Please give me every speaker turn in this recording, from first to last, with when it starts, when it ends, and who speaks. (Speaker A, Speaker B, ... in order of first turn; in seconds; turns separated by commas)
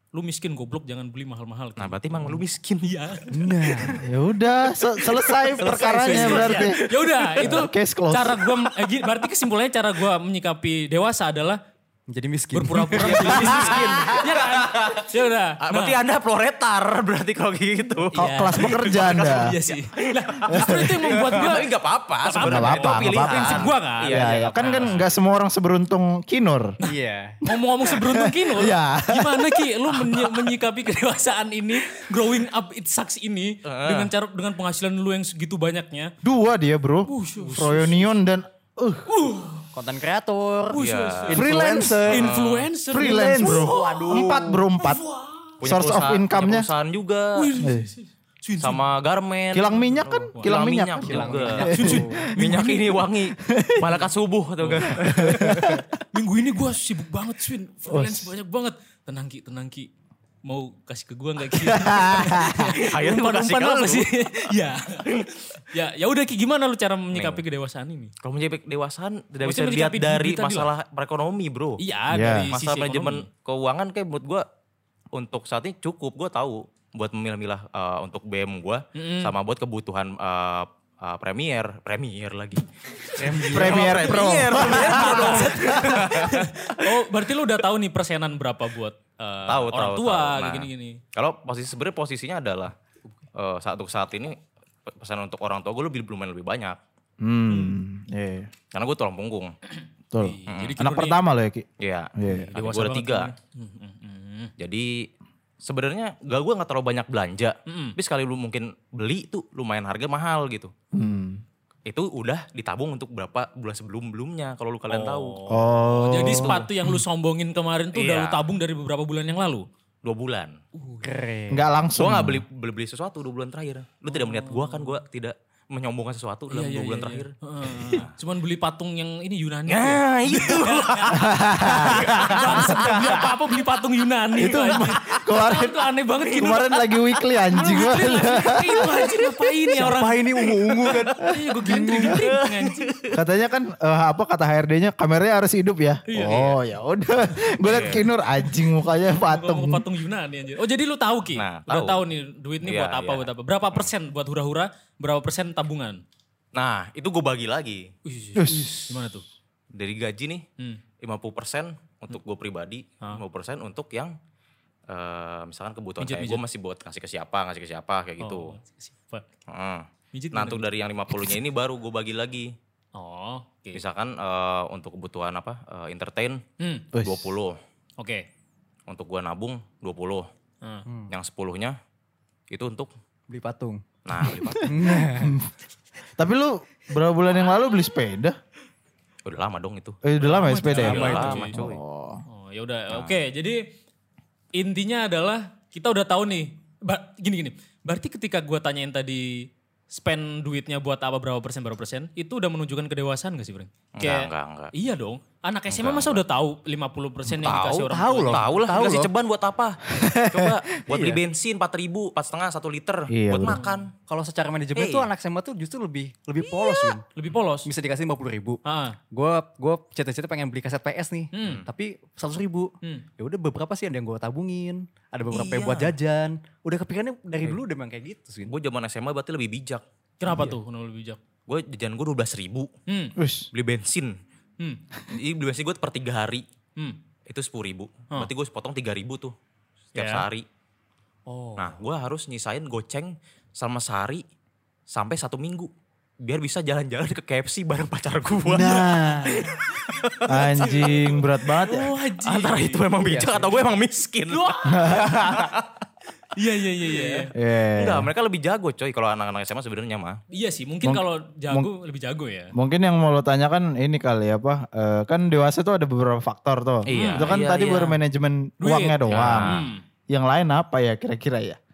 Speaker A: 0.1-2.0, Speaker B: 1.8-2.9, Speaker A: 2.8-4.0, Speaker C: 3.3-4.0, Speaker D: 4.0-6.8, Speaker A: 5.4-11.6, Speaker C: 5.6-6.7, Speaker D: 7.3-8.5, Speaker C: 12.1-14.1, Speaker A: 12.5-16.0, Speaker B: 12.8-24.9, Speaker D: 18.2-19.6, Speaker A: 18.2-21.7, Speaker D: 20.5-21.1, Speaker A: 22.2-25.1, Speaker D: 22.4-26.7, Speaker C: 24.1-24.6, Speaker C: 26.8-27.4, Speaker A: 27.4-36.1, Speaker D: 27.5-30.6, Speaker B: 33.6-34.1, Speaker D: 36.2-39.1, Speaker A: 37.1-38.1, Speaker A: 39.1-39.7, Speaker C: 39.7-42.3, Speaker A: 40.7-41.5, Speaker B: 40.8-41.4, Speaker D: 41.3-42.3, Speaker A: 42.1-45.5, Speaker B: 42.1-42.7, Speaker D: 42.9-45.0, Speaker C: 43.0-44.6, Speaker B: 45.6-47.5, Speaker D: 45.6-46.7, Speaker A: 47.4-48.8, Speaker D: 47.6-47.9, Speaker B: 48.6-49.8, Speaker D: 49.5-52.7, Speaker B: 50.4-55.4, Speaker C: 51.0-52.2, Speaker A: 51.6-53.0, Speaker D: 53.4-54.0, Speaker A: 54.6-59.9, Speaker D: 54.9-55.9, Speaker D: 57.9-58.3, Speaker A: 60.5-68.1, Speaker D: 61.6-62.7, Speaker B: 62.7-64.1, Speaker B: 67.1-67.4, Speaker B: 68.2-71.8, Speaker A: 69.4-70.7, Speaker A: 71.8-73.2, Speaker D: 72.1-72.5, Speaker B: 72.5-74.5, Speaker B: 75.1-86.8, Speaker A: 79.0-79.3, Speaker C: 83.2-86.0, Speaker D: 83.4-86.1, Speaker A: 84.5-91.0, Speaker B: 89.5-92.7, Speaker B: 93.3-96.8, Speaker D: 97.2-98.5, Speaker A: 97.5-97.8, Speaker B: 98.7-99.5, Speaker A: 99.8-101.2, Speaker D: 100.1-102.5, Speaker B: 100.5-100.8, Speaker B: 101.8-103.3, Speaker A: 102.3-104.5, Speaker B: 104.6-105.1, Speaker B: 105.6-110.7, Speaker A: 107.7-108.0, Speaker D: 110.9-111.4, Speaker B: 111.9-115.4, Speaker A: 114.9-119.7, Speaker D: 115.5-117.0, Speaker B: 116.2-116.7, Speaker B: 117.9-118.4, Speaker B: 120.0-120.6, Speaker A: 120.8-121.1, Speaker C: 121.0-121.7, Speaker D: 121.5-122.5, Speaker B: 122.0-128.1, Speaker A: 124.1-125.0, Speaker A: 126.5-137.0, Speaker B: 129.7-133.3, Speaker D: 131.1-133.0, Speaker D: 134.4-139.1, Speaker A: 137.5-142.9, Speaker C: 139.8-142.3, Speaker B: 142.1-143.2, Speaker D: 143.1-149.8, Speaker A: 146.1-146.6, Speaker B: 147.6-148.1, Speaker A: 149.1-156.0, Speaker B: 151.3-152.0, Speaker B: 152.6-153.9, Speaker B: 156.5-157.9, Speaker A: 158.1-159.2, Speaker D: 158.3-158.9, Speaker B: 159.7-160.4, Speaker B: 161.0-164.2, Speaker B: 164.9-168.5, Speaker A: 166.0-166.4, Speaker A: 168.2-169.2, Speaker B: 169.5-172.5, Speaker A: 170.1-170.6, Speaker A: 172.9-173.8, Speaker B: 173.7-176.4, Speaker A: 176.6-176.9, Speaker D: 176.9-177.3, Speaker B: 176.9-177.6, Speaker A: 178.0-178.2, Speaker B: 178.9-180.3, Speaker C: 180.9-181.1, Speaker B: 181.1-181.8, Speaker B: 182.5-182.9, Speaker C: 183.3-183.8, Speaker B: 184.1-185.0, Speaker D: 184.4-185.5, Speaker C: 184.6-185.4, Speaker D: 186.2-188.4, Speaker B: 189.3-190.0, Speaker D: 190.0-192.2, Speaker A: 190.2-191.6, Speaker B: 190.6-191.8, Speaker C: 190.8-191.4, Speaker A: 192.3-193.6, Speaker B: 192.9-193.2, Speaker A: 194.5-208.5, Speaker B: 204.0-204.7, Speaker B: 205.7-206.2, Speaker B: 207.3-213.9, Speaker C: 207.9-209.1, Speaker D: 209.9-210.6, Speaker C: 210.9-211.2, Speaker D: 213.1-213.6, Speaker A: 213.5-213.8, Speaker C: 214.1-217.0, Speaker B: 214.8-215.1, Speaker A: 217.1-217.7, Speaker C: 217.7-228.5, Speaker A: 218.7-219.0, Speaker A: 221.3-221.6, Speaker B: 225.3-225.9, Speaker B: 228.4-229.8, Speaker A: 230.2-231.2, Speaker B: 231.5-232.7, Speaker A: 232.9-233.2, Speaker D: 233.2-233.5, Speaker B: 233.5-234.2, Speaker B: 235.1-236.4, Speaker B: 237.3-239.3, Speaker A: 240.0-240.2, Speaker B: 240.0-240.5, Speaker A: 241.3-241.8, Speaker B: 241.6-244.2, Speaker B: 244.9-251.0, Speaker D: 248.5-248.9, Speaker C: 248.5-249.4, Speaker A: 249.3-252.8, Speaker D: 250.3-251.9, Speaker B: 252.2-255.7, Speaker C: 253.0-253.5, Speaker A: 254.3-255.1, Speaker D: 254.7-255.2, Speaker A: 256.3-257.3, Speaker D: 257.4-258.1, Speaker B: 257.8-260.2, Speaker A: 260.3-262.5, Speaker D: 260.8-261.7, Speaker D: 262.6-271.6, Speaker B: 266.9-267.9, Speaker A: 266.9-267.9, Speaker A: 268.6-269.8, Speaker B: 269.1-269.7